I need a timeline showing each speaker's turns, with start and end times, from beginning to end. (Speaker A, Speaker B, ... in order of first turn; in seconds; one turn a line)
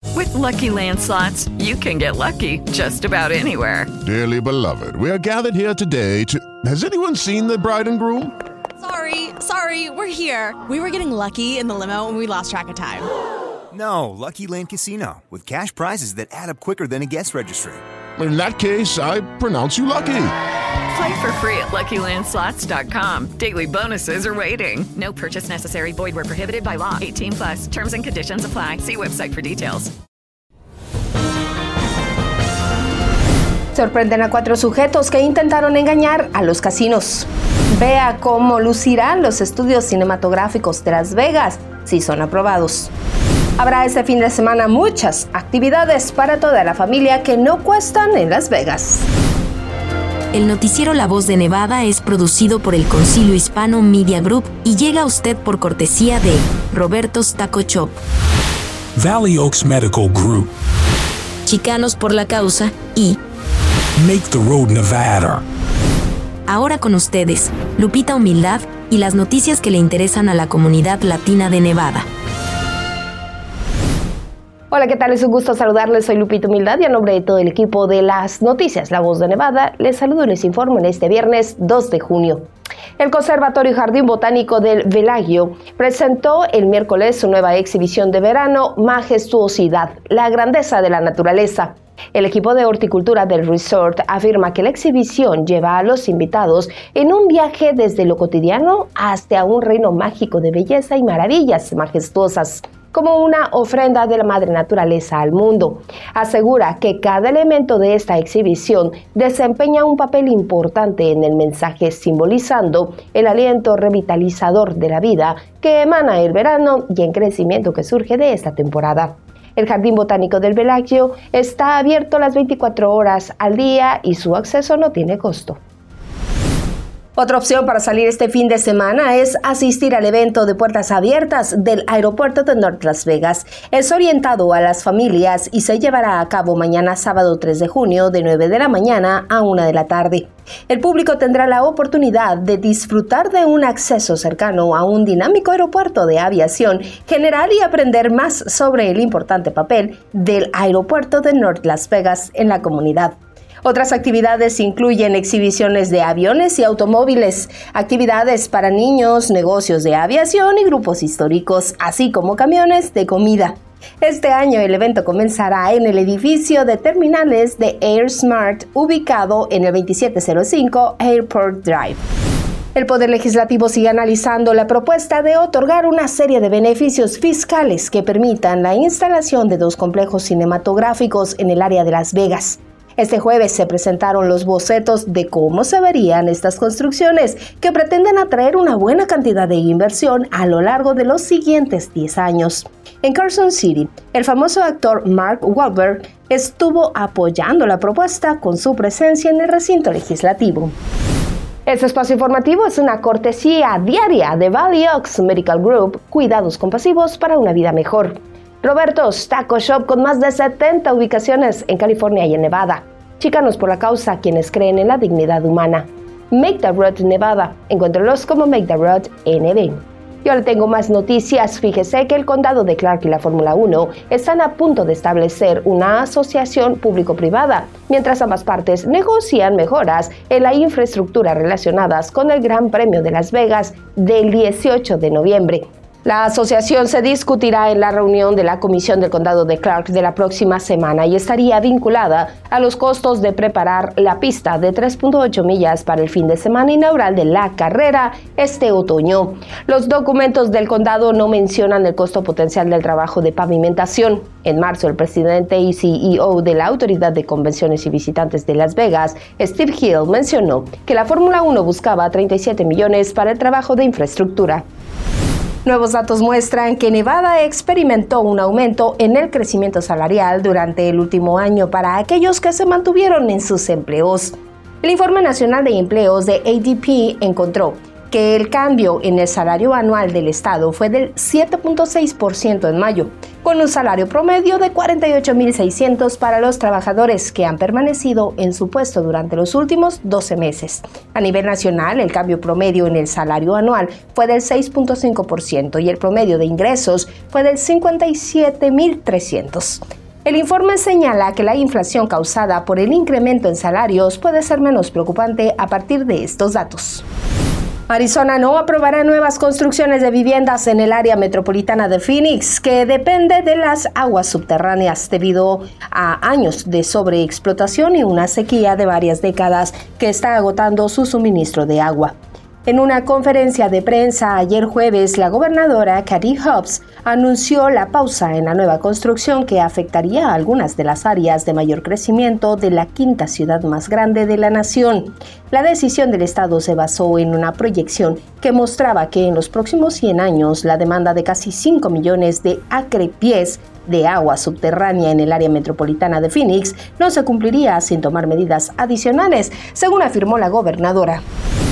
Speaker A: 0.1-3.9
Speaker B: 4.0-8.3
Speaker C: 8.8-13.1
Speaker D: 13.8-17.8
Speaker B: 18.2-20.3
Speaker A: 20.9-29.9
Speaker E: 33.7-42.9
Speaker E: 43.6-49.1
Speaker F: 50.3-58.0
Speaker G: 59.0-60.5
Speaker F: 61.5-63.2
Speaker G: 64.0-65.4
Speaker F: 66.5-72.1
Speaker E: 74.7-125.6
Speaker E: 127.2-172.0
Speaker E: 172.7-200.8
Speaker E: 201.7-264.6
Speaker E: 265.6-307.0
Speaker E: 307.9-351.2